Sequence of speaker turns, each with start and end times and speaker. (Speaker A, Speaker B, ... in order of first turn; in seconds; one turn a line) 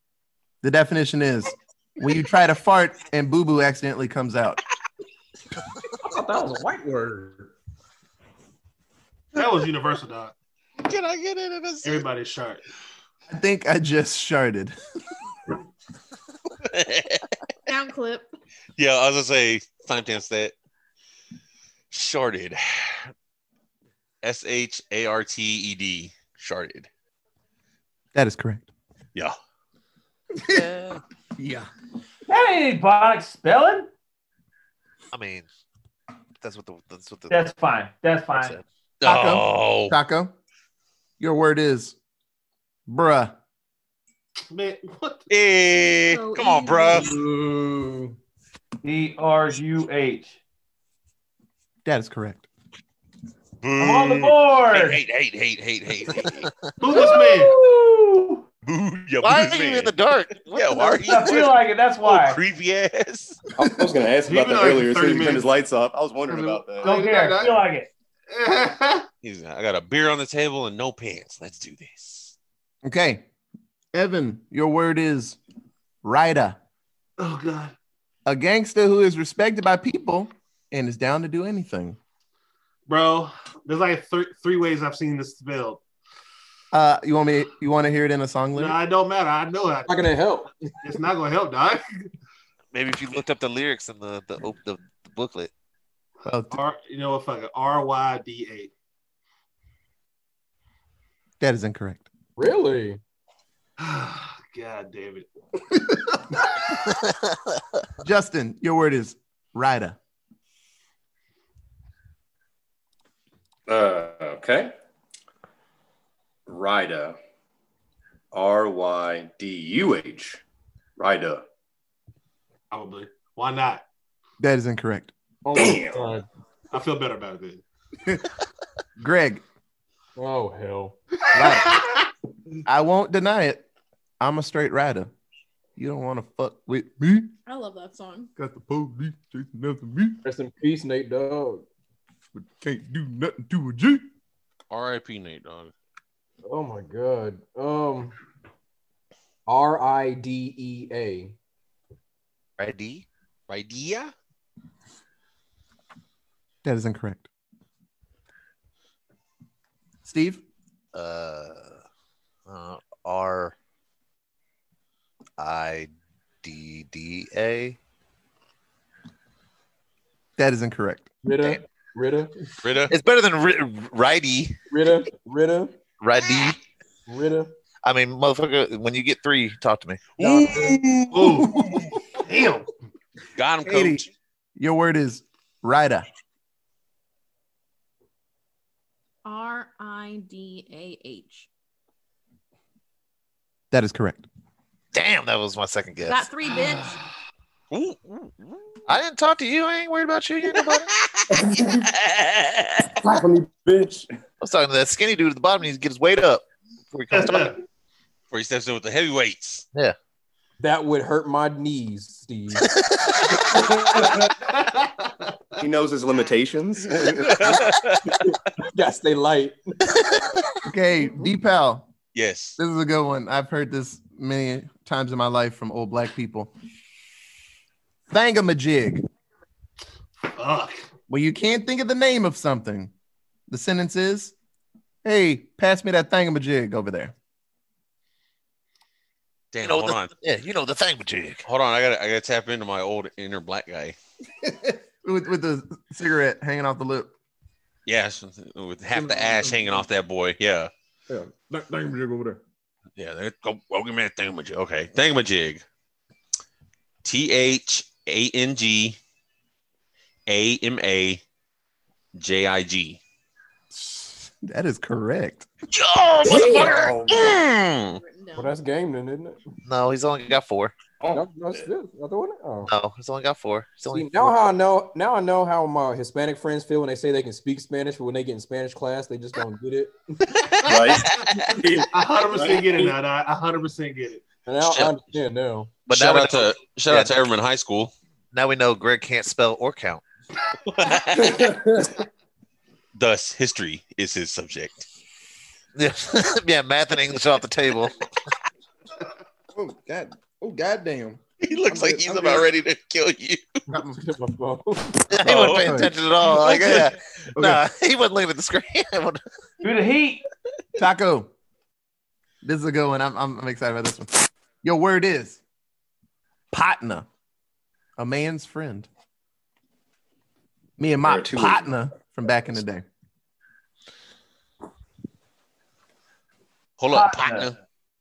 Speaker A: 0.6-4.6
Speaker B: 6.0-7.5
Speaker C: 9.3-10.3
Speaker D: 10.8-12.1
Speaker C: 11.8-12.6
Speaker A: 13.3-14.8
Speaker D: 16.6-17.4
Speaker E: 17.7-18.3
Speaker D: 18.8-20.5
Speaker D: 21.9-23.1
Speaker D: 24.2-26.9
Speaker A: 28.1-28.7
Speaker F: 30.6-30.9
Speaker A: 31.4-31.7
Speaker G: 32.3-33.9
Speaker F: 35.1-35.5
Speaker F: 36.4-37.4
Speaker G: 37.3-38.6
Speaker F: 38.3-38.6
Speaker D: 39.0-40.0
Speaker A: 39.0-40.3
Speaker A: 41.2-42.0
Speaker A: 42.9-43.4
Speaker C: 44.5-45.3
Speaker D: 45.3-47.1
Speaker E: 45.9-47.1
Speaker B: 46.9-48.2
Speaker G: 48.8-50.4
Speaker A: 51.9-52.5
Speaker D: 53.6-56.5
Speaker G: 53.8-55.0
Speaker C: 56.8-57.5
Speaker G: 56.9-58.4
Speaker D: 58.6-60.0
Speaker F: 59.2-61.2
Speaker D: 60.5-63.4
Speaker G: 61.0-62.4
Speaker H: 63.6-66.9
Speaker C: 64.3-65.5
Speaker C: 66.3-67.6
Speaker G: 66.8-67.9
Speaker C: 68.3-69.1
Speaker D: 69.2-72.3
Speaker A: 72.8-73.3
Speaker A: 73.9-75.4
Speaker A: 76.0-76.6
Speaker C: 77.2-77.7
Speaker A: 78.3-82.0
Speaker C: 82.9-85.8
Speaker A: 86.7-88.8
Speaker C: 88.5-90.1
Speaker B: 89.9-90.7
Speaker C: 90.8-91.8
Speaker F: 92.7-95.5
Speaker A: 96.3-96.6
Speaker C: 96.5-98.7
Speaker A: 101.4-102.1
Speaker B: 102.4-103.0
Speaker C: 103.8-105.3
Speaker A: 108.0-110.0
Speaker H: 113.7-114.7
Speaker H: 116.5-117.2
Speaker H: 118.3-120.4
Speaker H: 121.0-121.4
Speaker C: 122.7-123.9
Speaker A: 124.4-125.1
Speaker B: 125.4-126.3
Speaker H: 125.5-126.2
Speaker C: 126.7-127.6
Speaker A: 129.0-129.4
Speaker B: 130.2-131.0
Speaker A: 131.3-131.9
Speaker C: 131.3-132.1
Speaker A: 132.7-133.6
Speaker A: 134.2-135.1
Speaker A: 135.8-137.3
Speaker E: 137.5-138.3
Speaker A: 138.4-140.2
Speaker B: 140.2-141.7
Speaker A: 142.3-144.1
Speaker D: 144.7-145.7
Speaker B: 146.4-148.2
Speaker B: 149.5-151.4
Speaker F: 152.6-153.1
Speaker D: 153.5-154.1
Speaker A: 156.6-157.3
Speaker A: 160.0-160.4
Speaker F: 160.9-161.8
Speaker F: 162.5-163.6
Speaker F: 165.4-165.9
Speaker F: 166.4-167.8
Speaker A: 170.4-171.1
Speaker B: 171.2-172.3
Speaker F: 171.3-171.6
Speaker D: 172.6-172.9
Speaker F: 172.9-174.5
Speaker B: 174.7-175.8
Speaker F: 176.0-176.6
Speaker B: 177.1-177.5
Speaker F: 177.8-180.1
Speaker D: 180.2-181.9
Speaker B: 180.2-180.8
Speaker C: 181.1-181.6
Speaker C: 182.2-182.7
Speaker D: 183.4-184.1
Speaker A: 183.6-184.1
Speaker A: 184.6-186.1
Speaker E: 189.2-191.5
Speaker A: 193.7-194.3
Speaker F: 194.9-196.3
Speaker E: 196.1-197.0
Speaker D: 197.7-198.6
Speaker F: 198.9-200.9
Speaker D: 200.6-203.0
Speaker H: 201.3-201.9
Speaker H: 203.0-204.1
Speaker F: 204.4-207.5
Speaker C: 207.1-207.6
Speaker D: 208.3-209.7
Speaker B: 210.6-212.7
Speaker H: 213.7-214.3
Speaker C: 214.4-215.6
Speaker H: 215.6-217.7
Speaker D: 217.1-218.3
Speaker B: 218.1-219.8
Speaker A: 220.7-221.9
Speaker D: 222.1-222.6
Speaker A: 222.6-226.5
Speaker A: 228.1-229.0
Speaker C: 230.3-230.8
Speaker A: 231.1-232.9
Speaker A: 233.5-234.3
Speaker A: 235.0-237.1
Speaker D: 239.5-240.1
Speaker F: 239.6-241.4
Speaker D: 241.5-244.0
Speaker A: 244.4-247.1
Speaker D: 247.9-250.7
Speaker A: 249.1-249.5
Speaker A: 251.1-252.4
Speaker D: 253.0-255.6
Speaker D: 257.0-259.0
Speaker D: 260.3-261.2
Speaker D: 262.1-263.0
Speaker A: 263.7-265.5
Speaker D: 265.7-268.0
Speaker H: 266.3-267.5
Speaker E: 266.4-266.8
Speaker E: 267.8-268.5
Speaker B: 268.4-269.4
Speaker F: 269.7-270.8
Speaker H: 271.0-271.3
Speaker B: 271.1-272.7
Speaker F: 272.6-274.5
Speaker B: 273.9-279.9
Speaker D: 280.4-281.6
Speaker H: 280.6-282.9
Speaker C: 281.9-284.3
Speaker B: 284.5-285.7
Speaker D: 284.6-284.9
Speaker F: 285.9-287.2
Speaker D: 285.9-287.9
Speaker F: 288.3-290.0
Speaker D: 290.7-291.5
Speaker H: 291.1-291.9
Speaker D: 292.9-294.9
Speaker F: 295.8-298.0
Speaker A: 299.5-302.5
Speaker D: 301.4-303.6
Speaker A: 303.7-304.0
Speaker B: 303.9-305.0
Speaker F: 305.1-309.2
Speaker D: 305.2-306.9
Speaker A: 305.4-305.9
Speaker G: 309.6-310.2
Speaker A: 310.8-311.3
Speaker A: 312.4-315.4
Speaker A: 316.5-317.1
Speaker A: 318.0-318.9
Speaker A: 320.8-322.9
Speaker H: 321.0-321.7
Speaker D: 326.8-327.6
Speaker G: 326.9-327.5